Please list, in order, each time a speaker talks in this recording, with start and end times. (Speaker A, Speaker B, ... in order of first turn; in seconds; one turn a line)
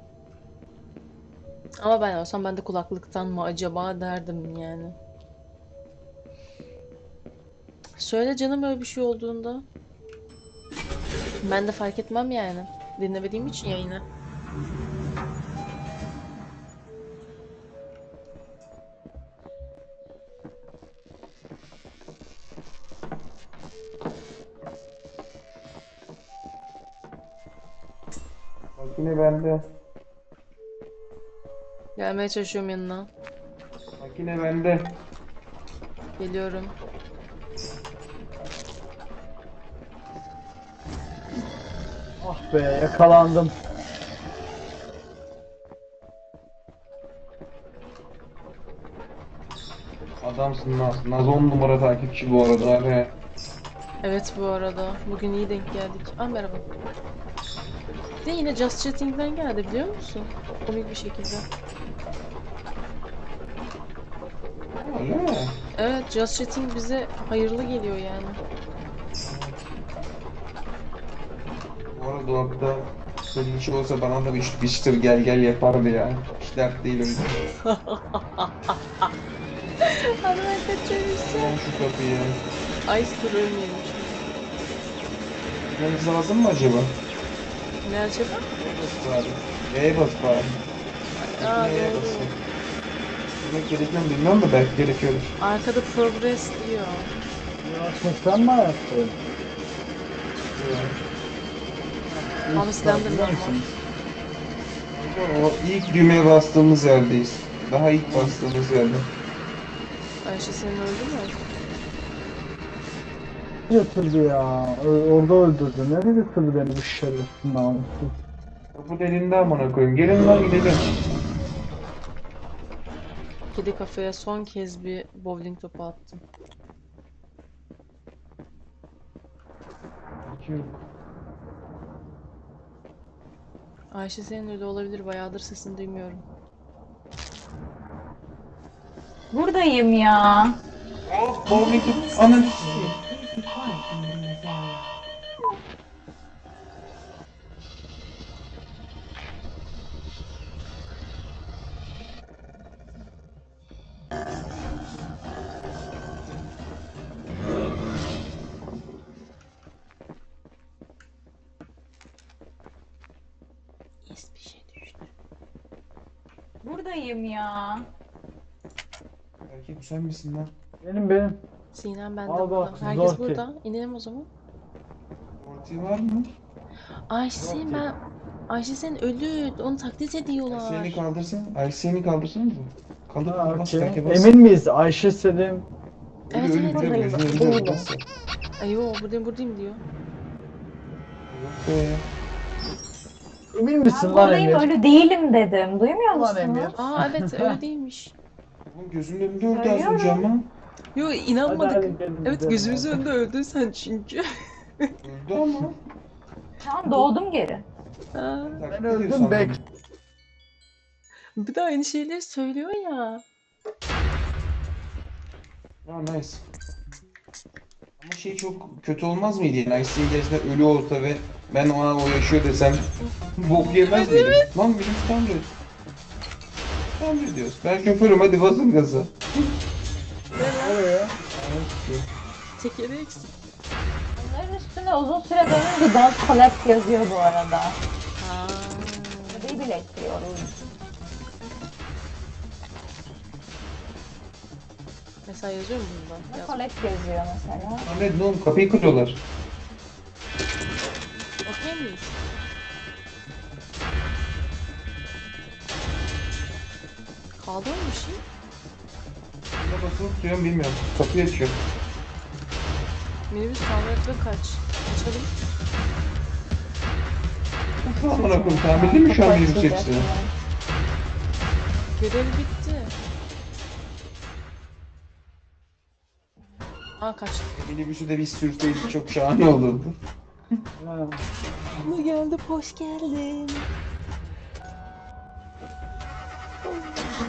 Speaker A: 1.8-5.0
Speaker A: 8.0-9.6
Speaker A: 11.4-14.0
Speaker B: 28.8-29.6
Speaker A: 31.9-33.1
Speaker B: 34.0-35.0
Speaker A: 36.2-36.7
Speaker C: 42.2-43.5
Speaker B: 50.2-53.1
Speaker A: 54.0-56.6
Speaker A: 58.2-61.5
Speaker B: 64.8-65.6
Speaker A: 65.8-68.4
Speaker B: 69.2-69.6
Speaker B: 71.9-77.4
Speaker A: 77.6-79.1
Speaker A: 79.8-81.6
Speaker B: 81.2-82.4
Speaker A: 82.8-84.1
Speaker B: 85.6-86.9
Speaker A: 87.8-88.5
Speaker B: 88.6-90.6
Speaker A: 91.2-92.3
Speaker B: 91.4-92.4
Speaker B: 93.4-95.3
Speaker A: 95.4-97.1
Speaker C: 97.6-99.1
Speaker B: 100.5-101.0
Speaker C: 102.1-103.8
Speaker A: 102.5-103.6
Speaker B: 104.9-109.1
Speaker C: 108.0-108.3
Speaker A: 110.2-111.4
Speaker C: 113.7-118.1
Speaker B: 118.7-120.8
Speaker A: 123.5-126.2
Speaker B: 130.2-130.7
Speaker A: 133.9-136.2
Speaker D: 139.3-140.6
Speaker B: 141.1-143.0
Speaker A: 164.1-165.1
Speaker D: 166.6-167.8
Speaker B: 169.5-170.5
Speaker C: 170.8-171.4
Speaker A: 171.7-174.3
Speaker C: 172.2-173.4
Speaker B: 175.4-176.3
Speaker A: 177.1-181.0
Speaker C: 177.3-177.9
Speaker B: 180.4-184.3
Speaker C: 183.2-185.6
Speaker B: 186.3-188.0
Speaker A: 186.3-187.4
Speaker D: 187.0-187.8
Speaker A: 188.6-189.8
Speaker B: 191.3-192.1
Speaker C: 193.5-194.7
Speaker D: 193.9-196.7
Speaker C: 196.1-197.6
Speaker A: 196.7-198.1
Speaker B: 198.7-200.5
Speaker D: 199.5-200.3
Speaker A: 200.9-204.3
Speaker C: 201.4-203.1
Speaker B: 205.0-205.8
Speaker D: 206.6-207.6
Speaker A: 208.1-208.6
Speaker B: 208.5-209.6
Speaker C: 208.7-209.6
Speaker A: 211.4-213.2
Speaker B: 215.8-216.4
Speaker B: 218.0-225.5
Speaker A: 223.0-224.5
Speaker B: 226.9-229.1
Speaker A: 230.3-230.8
Speaker C: 230.4-231.2
Speaker B: 231.2-232.1
Speaker A: 232.6-233.3
Speaker D: 234.2-237.8
Speaker A: 238.2-239.6
Speaker D: 239.3-240.5
Speaker A: 245.2-246.6
Speaker D: 246.3-247.9
Speaker B: 247.8-249.2
Speaker A: 251.4-252.2
Speaker A: 257.4-258.2
Speaker B: 259.6-261.6
Speaker A: 263.3-265.3
Speaker B: 267.8-270.1
Speaker D: 267.9-270.3
Speaker A: 271.9-272.9
Speaker A: 277.0-277.5
Speaker B: 277.5-279.9
Speaker C: 280.8-281.2
Speaker A: 281.8-283.7